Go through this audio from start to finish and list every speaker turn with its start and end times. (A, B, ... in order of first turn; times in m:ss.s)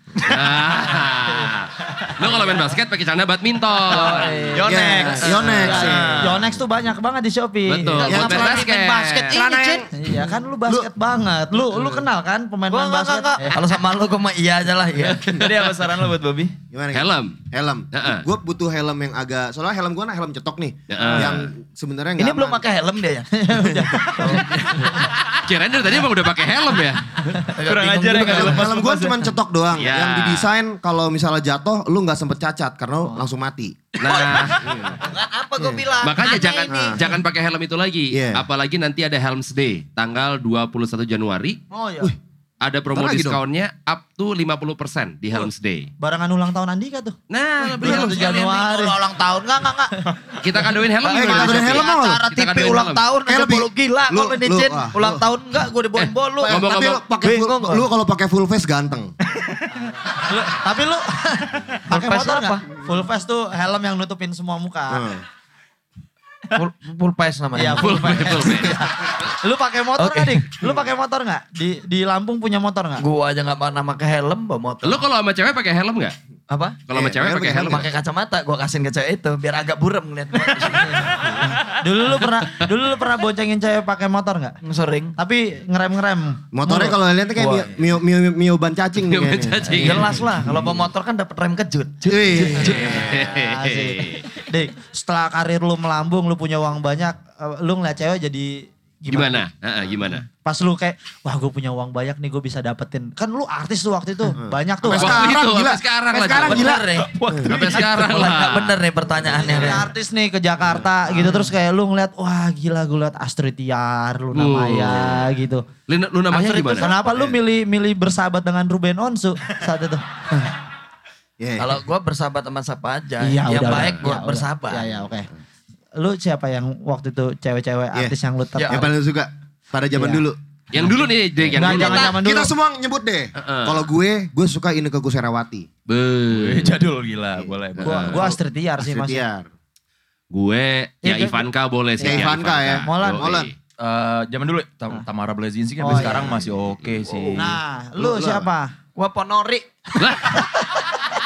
0:00.2-0:04.4 A
0:02.2-0:02.6 B
0:03.9-0:04.8 B
0:03.9-0:06.1 C
0:04.6-0:06.5 D
0:04.6-0:06.6 E
0:05.6-0:08.2 B
0:07.7-0:09.4 A
0:07.9-0:09.9 C
0:08.0-0:08.7 E
0:09.3-0:10.9 E
0:10.0-0:13.6 B
0:12.7-0:15.4 C
0:15.2-0:16.6 D
0:16.7-0:22.6 E
0:16.9-0:17.4 A
0:17.9-0:18.2 A
0:20.9-0:21.5 A
0:22.2-0:23.3 C
0:23.3-0:25.0 B
0:23.5-0:24.4 E
0:24.0-0:24.9 C
0:25.2-0:27.4 A
0:27.4-0:28.7 C
0:27.6-0:29.2 D
0:28.2-0:34.0 E
0:29.7-0:30.5 A
0:34.0-0:34.8 A
0:34.0-0:37.0 C
0:34.6-0:35.0 E
0:36.0-0:41.6 A
0:36.7-0:37.0 E
0:38.1-0:38.5 E
0:41.7-0:42.1 B
0:42.6-0:45.9 A
0:42.9-0:43.4 E
0:46.0-0:49.0 B
0:47.3-0:48.6 A
0:47.8-0:50.0 C
0:50.4-0:53.1 A
0:51.0-0:56.6 C
0:51.0-0:52.2 E
0:53.3-0:55.3 E
0:56.4-0:59.1 E
0:56.5-0:57.0 A
0:57.2-0:57.9 C
1:00.2-1:05.1 B
1:01.9-1:02.7 C
1:04.9-1:05.2 E
1:06.5-1:08.9 C
1:07.6-1:13.0 B
1:07.8-1:08.8 A
1:10.0-1:10.6 C
1:13.0-1:15.0 C
1:14.8-1:16.1 A
1:16.5-1:16.8 C
1:16.9-1:17.9 A
1:16.9-1:17.9 E
1:17.6-1:21.6 C
1:21.7-1:24.6 B
1:24.6-1:25.2 C
1:25.2-1:26.9 B
1:26.5-1:30.8 E
1:27.4-1:27.8 C
1:29.0-1:30.2 A
1:29.7-1:33.0 C
1:32.0-1:33.2 E
1:32.6-1:34.2 A
1:32.8-1:39.4 B
1:39.1-1:40.3 A
1:40.3-1:45.3 B
1:44.4-1:47.6 E
1:44.9-1:46.8 A
1:46.3-1:49.9 C
1:47.1-1:47.8 D
1:47.4-1:48.8 A
1:49.4-1:55.7 B
1:54.3-1:55.3 A
1:55.9-1:56.9 A
1:56.3-1:57.2 C
1:56.8-2:00.0 B
2:01.4-2:01.8 E
2:01.6-2:04.9 C
2:03.2-2:05.3 B
2:06.0-2:08.9 B
2:08.6-2:08.8 C
2:08.7-2:10.4 E
2:10.0-2:10.2 B
2:10.7-2:12.2 A
2:11.5-2:15.7 E
2:11.6-2:12.5 B
2:13.4-2:13.9 A
2:15.9-2:16.8 A
2:16.3-2:18.3 D
2:17.8-2:18.4 A
2:17.8-2:19.2 B
2:18.8-2:19.5 E
2:20.3-2:23.5 A
2:21.0-2:21.5 B
2:22.0-2:22.3 B
2:22.0-2:23.5 E
2:22.8-2:23.3 B
2:23.8-2:27.6 D
2:25.8-2:26.4 B
2:27.0-2:27.4 C
2:27.4-2:28.7 B
2:28.0-2:28.5 E
2:29.0-2:29.7 C
2:30.0-2:30.5 A